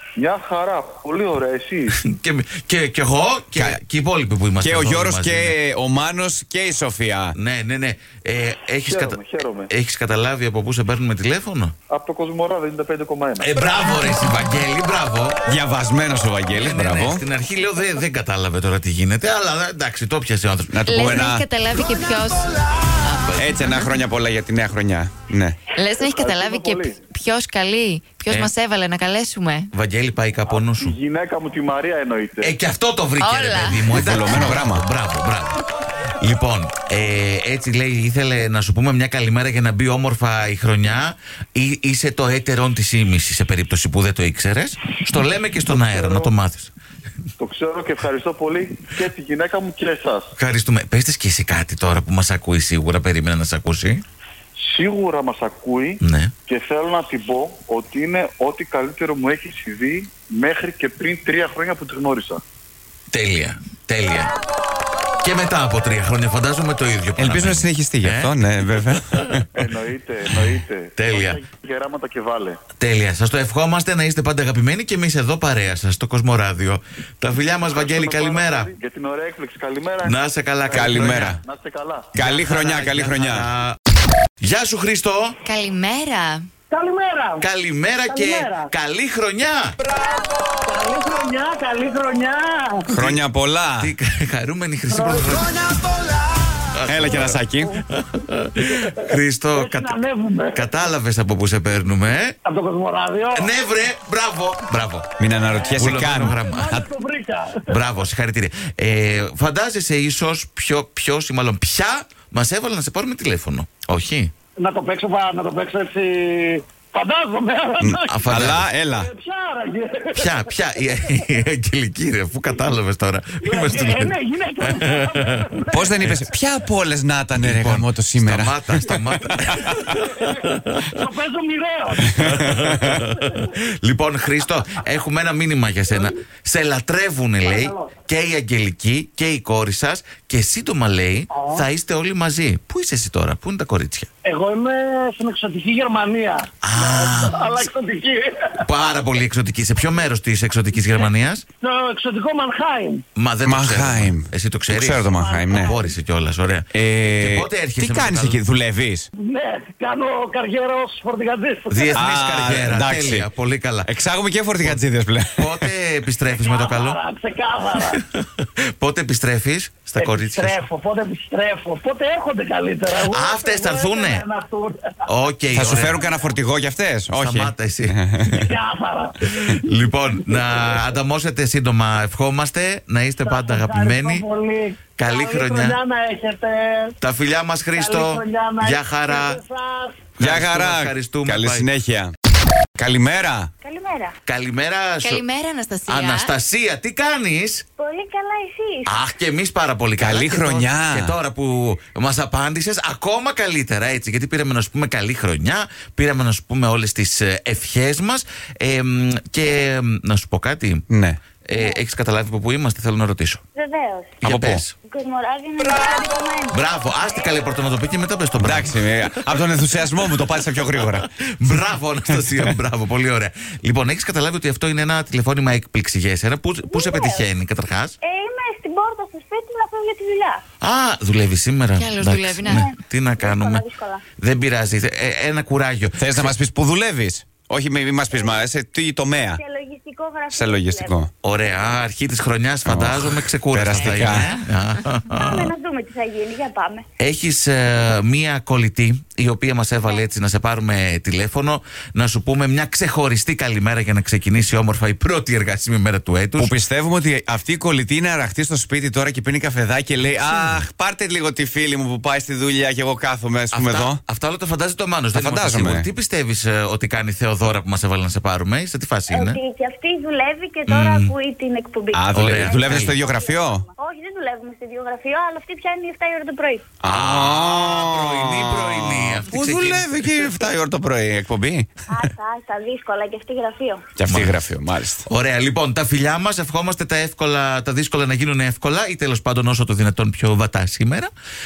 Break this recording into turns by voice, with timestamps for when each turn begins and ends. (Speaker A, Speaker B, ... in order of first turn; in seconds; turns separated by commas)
Speaker A: 0.2-1.9, Speaker B: 1.9-5.6, Speaker C: 4.6-7.3, Speaker B: 7.4-9.2, Speaker A: 8.9-9.7, Speaker B: 9.7-11.7, Speaker A: 11.9-13.5, Speaker B: 13.4-15.4, Speaker D: 13.8-14.6, Speaker C: 15.5-17.2, Speaker B: 16.6-21.2, Speaker C: 20.7-21.4, Speaker D: 20.9-23.9, Speaker B: 23.2-23.5, Speaker C: 23.4-25.6, Speaker D: 25.7-29.7, Speaker A: 26.0-27.0, Speaker B: 29.7-30.9, Speaker A: 30.5-32.5, Speaker B: 32.4-35.6, Speaker D: 33.2-33.9, Speaker C: 33.9-34.8, Speaker B: 36.2-46.7, Speaker A: 45.7-46.3, Speaker A: 47.4-50.3, Speaker B: 50.4-54.0, Speaker A: 54.6-62.4, Speaker B: 56.0-56.3, Speaker B: 63.1-64.3, Speaker B: 65.2-68.3, Speaker C: 67.2-69.4, Speaker B: 69.0-69.4, Speaker A: 69.5-72.6, Speaker B: 71.0-71.4, Speaker B: 72.8-78.7, Speaker A: 77.7-80.2, Speaker B: 80.0-81.4, Speaker A: 80.7-82.1, Speaker C: 80.7-81.4, Speaker C: 82.2-83.5, Speaker B: 82.2-83.8, Speaker B: 84.4-85.4, Speaker D: 85.4-86.5, Speaker E: 86.7-87.5, Speaker B: 87.4-89.8, Speaker E: 88.1-88.7, Speaker E: 90.7-92.9, Speaker C: 92.9-93.9, Speaker B: 92.9-93.2, Speaker B: 93.8-95.6, Speaker E: 94.9-95.4, Speaker B: 96.6-100.0, Speaker C: 96.9-97.8, Speaker E: 98.9-100.7, Speaker B: 100.5-102.3, Speaker E: 102.4-103.5, Speaker B: 103.3-105.1, Speaker C: 105.2-106.4, Speaker E: 105.5-107.8, Speaker B: 105.8-106.9, Speaker B: 107.7-114.3, Speaker E: 114.6-120.6, Speaker C: 117.8-119.1, Speaker B: 118.0-118.7, Speaker B: 120.1-126.3, Speaker E: 123.4-125.9, Speaker C: 125.7-129.9, Speaker B: 127.3-131.1, Speaker E: 129.6-132.4, Speaker B: 132.1-144.1, Speaker C: 132.2-132.9, Speaker E: 137.4-137.9, Speaker E: 141.3-141.7, Speaker E: 144.2-148.6, Speaker B: 146.6-147.7, Speaker B: 148.6-151.4, Speaker E: 151.6-153.0, Speaker B: 153.2-158.4, Speaker C: 153.4-155.7, Speaker E: 155.1-155.9, Speaker C: 156.7-159.1, Speaker E: 159.2-162.0, Speaker B: 161.7-163.9, Speaker C: 161.9-163.3, Speaker C: 163.8-165.7, Speaker B: 165.3-167.0, Speaker E: 166.3-168.0, Speaker B: 167.8-170.6, Speaker E: 170.0-175.1, Speaker B: 173.0-174.3, Speaker B: 175.1-176.0, Speaker C: 175.5-178.5, Speaker B: 177.1-178.0, Speaker E: 178.3-179.6, Speaker B: 179.2-184.3, Speaker E: 183.2-187.0, Speaker B: 184.9-185.8, Speaker B: 187.0-189.4, Speaker E: 187.7-190.1, Speaker B: 190.2-191.7, Speaker C: 190.2-192.1, Speaker C: 192.8-193.5, Speaker F: 193.6-194.1, Speaker B: 194.2-195.2, Speaker D: 195.0-196.3, Speaker B: 195.9-197.6, Speaker F: 197.8-199.0, Speaker B: 198.8-210.8, Speaker C: 200.0-201.1, Speaker C: 210.9-211.2, Speaker B: 211.4-213.4, Speaker F: 211.5-211.8, Speaker F: 213.6-214.2, Speaker B: 214.2-214.8, Speaker C: 214.2-214.6, Speaker F: 214.9-217.4, Speaker B: 216.5-227.9, Speaker C: 218.4-221.1, Speaker C: 222.1-222.5, Speaker F: 226.7-227.3, Speaker F: 228.0-230.4, Speaker B: 230.6-233.6, Speaker D: 231.8-232.7, Speaker F: 232.4-234.0, Speaker B: 234.2-236.3, Speaker C: 236.0-239.4, Speaker F: 238.1-238.4, Speaker F: 239.3-241.7, Speaker C: 240.3-241.1, Speaker B: 241.2-245.5, Speaker C: 242.7-244.4, Speaker D: 243.9-244.3, Speaker F: 245.1-246.8, Speaker B: 247.0-256.6, Speaker C: 256.4-264.0, Speaker B: 260.2-260.6, Speaker B: 263.5-269.4, Speaker C: 265.1-265.9, Speaker F: 269.1-276.7, Speaker B: 270.7-271.1, Speaker C: 271.9-273.6, Speaker B: 272.1-272.9, Speaker C: 276.8-282.1, Speaker B: 276.9-280.1, Speaker F: 281.9-283.9, Speaker C: 284.0-285.1, Speaker B: 284.1-284.5, Speaker B: 285.1-291.1